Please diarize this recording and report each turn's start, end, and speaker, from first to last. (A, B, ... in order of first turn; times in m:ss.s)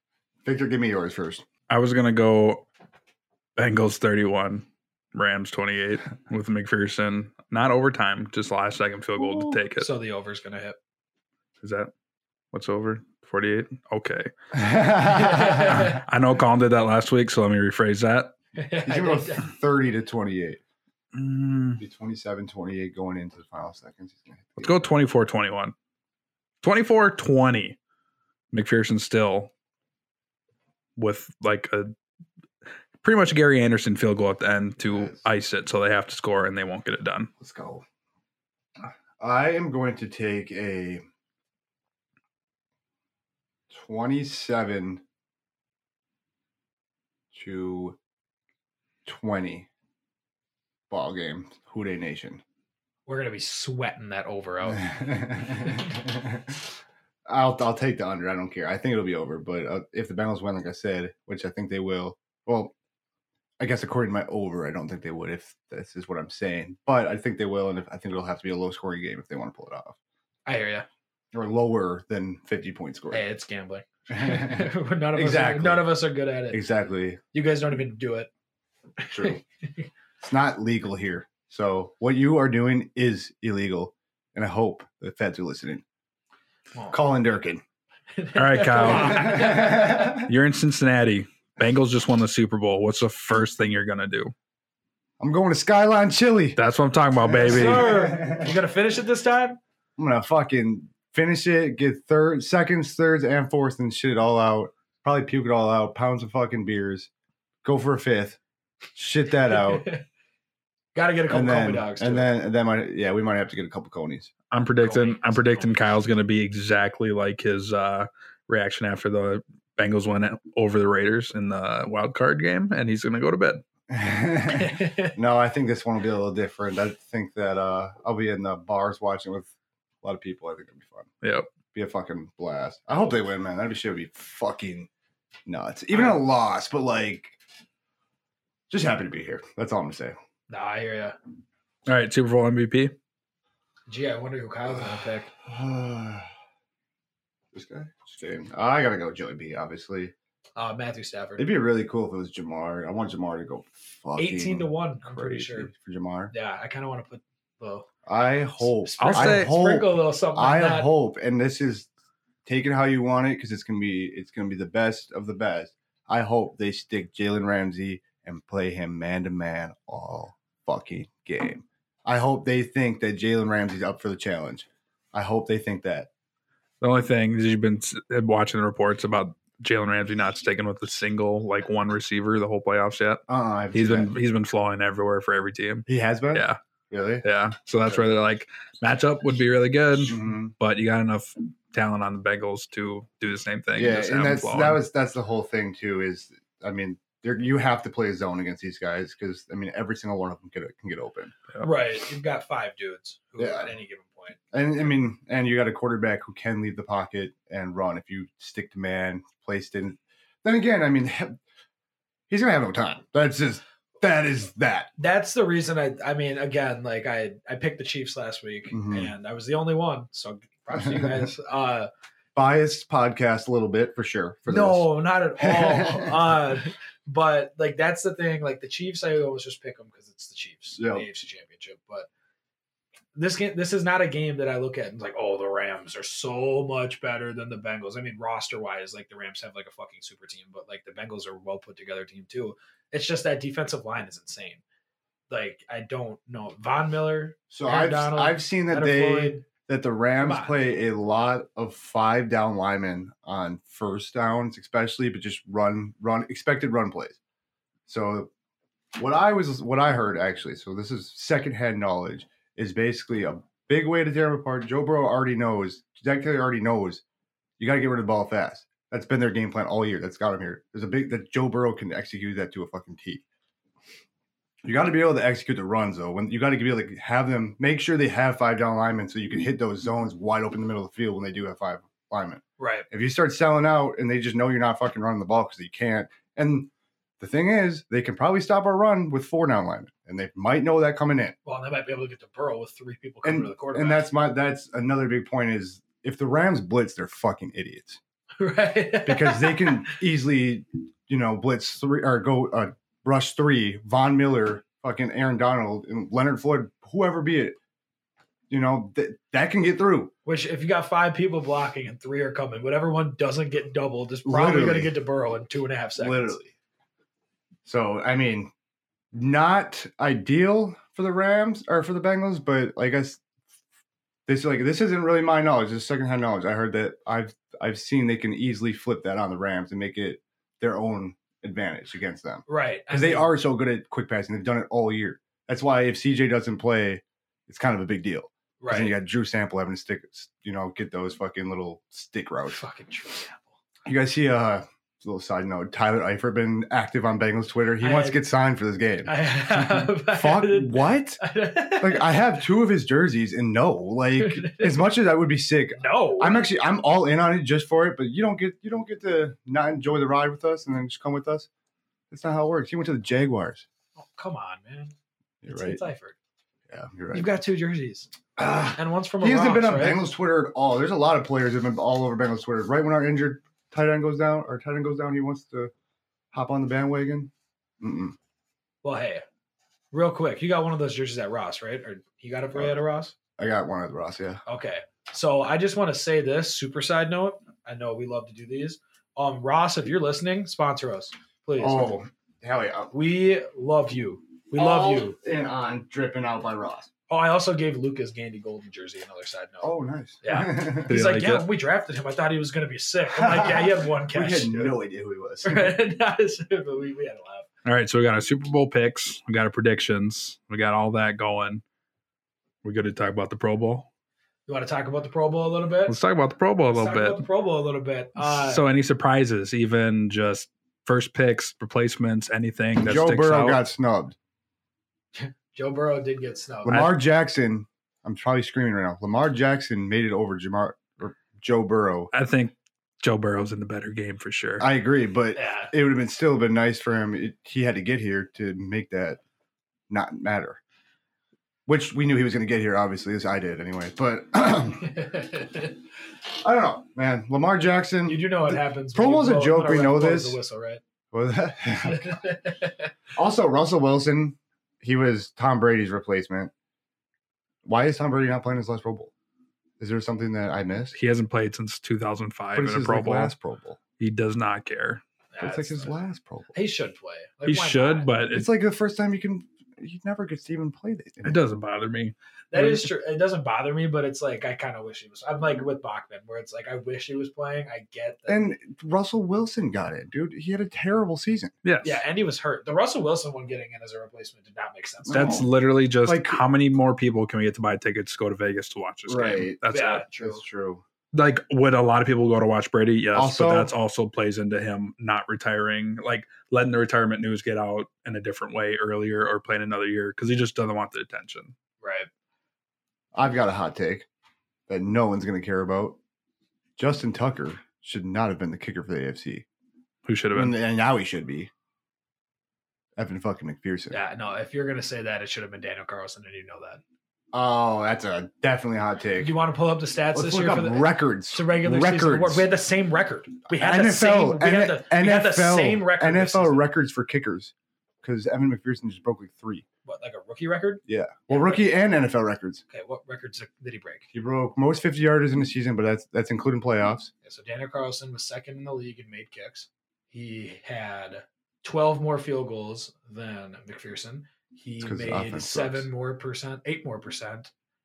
0:00.4-0:01.4 A
0:01.7-0:02.6 B
0:03.6-0:09.9 B
0:09.2-0:09.6 A
0:09.8-0:10.8 C
0:11.6-0:11.9 B
0:12.5-0:14.3 B
0:14.5-0:15.9 A
0:15.0-0:16.0 C
0:15.7-0:18.3 B
0:18.6-0:19.5 C
0:18.8-0:20.6 A
0:21.1-0:21.8 B
0:21.8-0:25.0 A
0:24.6-0:25.7 B
0:26.6-0:27.8 B
0:28.5-0:29.5 B
0:31.0-0:31.9 B
0:33.0-0:37.3 B
0:34.8-0:35.2 A
0:37.4-0:37.8 A
0:38.8-0:41.0 A
0:43.7-0:45.0 A
0:47.3-0:48.0 A
0:49.0-0:49.7 A
0:50.9-0:52.4 A
0:53.0-0:54.9 C
0:54.7-0:56.6 A
0:55.5-0:55.8 C
0:57.2-1:02.7 A
1:03.6-1:10.0 A
1:10.4-1:10.9 C
1:11.3-1:13.2 A
1:13.1-1:16.6 C
1:14.1-1:16.0 A
1:16.5-1:17.2 A
1:17.3-1:18.3 C
1:19.0-1:19.9 C
1:19.1-1:19.4 A
1:20.2-1:25.8 A
1:26.9-1:27.6 A
1:28.2-1:30.1 C
1:28.4-1:34.3 B
1:28.9-1:30.3 A
1:35.2-1:36.6 A
1:36.6-1:37.9 B
1:37.2-1:38.5 A
1:37.4-1:39.6 C
1:40.0-1:47.1 A
1:47.6-1:48.4 A
1:49.0-1:49.8 A
1:49.5-1:50.0 C
1:50.9-1:52.3 C
1:51.3-1:54.3 A
1:54.5-2:03.6 B
1:54.8-1:55.9 C
2:03.9-2:09.5 A
2:04.5-2:05.2 C
2:10.0-2:11.1 A
2:11.2-2:11.5 B
2:11.7-2:14.9 A
2:15.4-2:17.4 A
2:15.9-2:16.2 C
2:18.7-2:20.2 A
2:20.5-2:21.2 C
2:21.8-2:22.9 B
2:23.9-2:25.3 C
2:24.7-2:26.3 A
2:27.5-2:30.1 A
2:30.6-2:31.4 C
2:31.4-2:36.3 A
2:34.2-2:35.7 C
2:36.3-2:37.9 C
2:38.0-2:41.9 A
2:38.8-2:40.9 C
2:39.0-2:39.6 B
2:42.4-2:56.1 A
2:56.8-3:06.6 B
3:03.3-3:04.1 A
3:05.9-3:07.2 A
3:07.2-3:14.8 B
3:10.0-3:10.5 A
3:13.8-3:21.3 A
3:21.6-3:24.4 C
3:23.4-3:23.7 A
3:24.5-3:31.4 A
3:32.3-3:34.9 A
3:35.0-3:41.9 C
3:38.7-3:39.1 A
3:40.8-3:41.3 A
3:42.3-3:46.4 A
3:44.5-3:52.1 C
3:50.8-3:51.0 A
3:53.1-4:04.6 C
4:05.3-4:09.4 C
4:07.5-4:17.2 A
4:10.2-4:10.6 C
4:17.9-4:18.3 A
4:18.9-4:27.0 A
4:27.6-4:33.2 A
4:34.6-4:51.3 A
4:42.6-4:42.9 C
4:51.4-4:54.0 C
4:53.2-4:58.0 A
4:58.4-4:59.9 C
4:59.0-5:07.6 A
5:08.5-5:10.1 A
5:10.2-5:16.4 C
5:14.2-5:14.9 A
5:16.0-5:16.5 A
5:17.6-5:18.5 A
5:19.1-5:23.2 A
5:24.3-5:42.6 A
5:32.5-5:33.3 C
5:38.6-5:39.0 C
5:42.4-5:43.5 C
5:43.8-5:51.2 A
5:47.8-5:48.2 C
5:49.0-5:52.1 C
5:51.8-6:01.5 A
5:54.2-5:54.8 C
5:55.8-5:56.5 C
6:02.1-6:03.6 A
6:04.0-6:04.9 C
6:05.4-6:05.8 A
6:05.5-6:06.1 C
6:06.7-6:07.3 A
6:07.1-6:08.1 C
6:08.4-6:15.7 A
6:08.7-6:10.0 C
6:16.3-6:18.2 A
6:18.8-6:19.2 C
6:19.9-6:23.1 C
6:23.4-6:24.4 A
6:24.4-6:32.0 C
6:31.6-6:32.9 A
6:32.9-6:35.2 C
6:34.5-6:36.9 A
6:37.1-6:44.8 C
6:39.6-6:40.9 A
6:40.8-6:41.5 B
6:43.1-6:45.8 A
6:45.4-6:47.5 C
6:47.6-6:51.6 B
6:52.6-6:53.9 B
6:54.5-6:56.0 C
6:55.9-6:57.2 B
6:56.7-6:58.6 C
6:58.2-7:03.6 B
7:02.8-7:04.1 A
7:05.1-7:06.9 C
7:06.6-7:12.1 A
7:12.1-7:14.7 B
7:14.6-7:19.2 A
7:15.3-7:15.7 C
7:19.9-7:20.6 A
7:21.7-7:24.9 A
7:24.7-7:25.8 C
7:26.3-7:30.4 A
7:28.0-7:30.8 C
7:31.1-7:32.2 A
7:31.8-7:32.9 C
7:33.1-7:36.5 A
7:37.6-7:39.1 A
7:39.8-7:40.9 A
7:40.9-7:43.3 B
7:42.5-7:43.8 A
7:44.0-7:45.0 B
7:45.3-7:46.0 C
7:45.4-7:46.5 A
7:46.5-7:48.1 C
7:47.4-7:48.5 B
7:48.3-7:51.4 A
7:51.2-7:52.9 B
7:52.5-7:58.5 C
7:58.3-8:01.5 A
8:01.6-8:02.0 B
8:01.8-8:05.4 C
8:05.0-8:05.4 A
8:05.1-8:10.0 B
8:06.0-8:06.4 A
8:09.1-8:09.6 A
8:09.7-8:10.4 C
8:10.1-8:10.8 A
8:11.1-8:21.5 B
8:13.1-8:13.7 A
8:21.8-8:22.1 C
8:23.1-8:24.0 A
8:24.7-8:26.0 A
8:26.8-8:29.4 A
8:30.0-8:30.6 B
8:30.3-8:31.5 A
8:33.0-8:34.0 A
8:33.9-8:36.8 C
8:37.3-8:39.3 A
8:39.2-8:46.6 C
8:40.1-8:42.5 A
8:43.5-8:49.6 A
8:49.8-8:51.7 C
8:50.8-8:52.6 A
8:52.7-8:54.1 C
8:54.1-8:57.1 A
8:57.2-9:07.5 C
9:04.8-9:05.9 A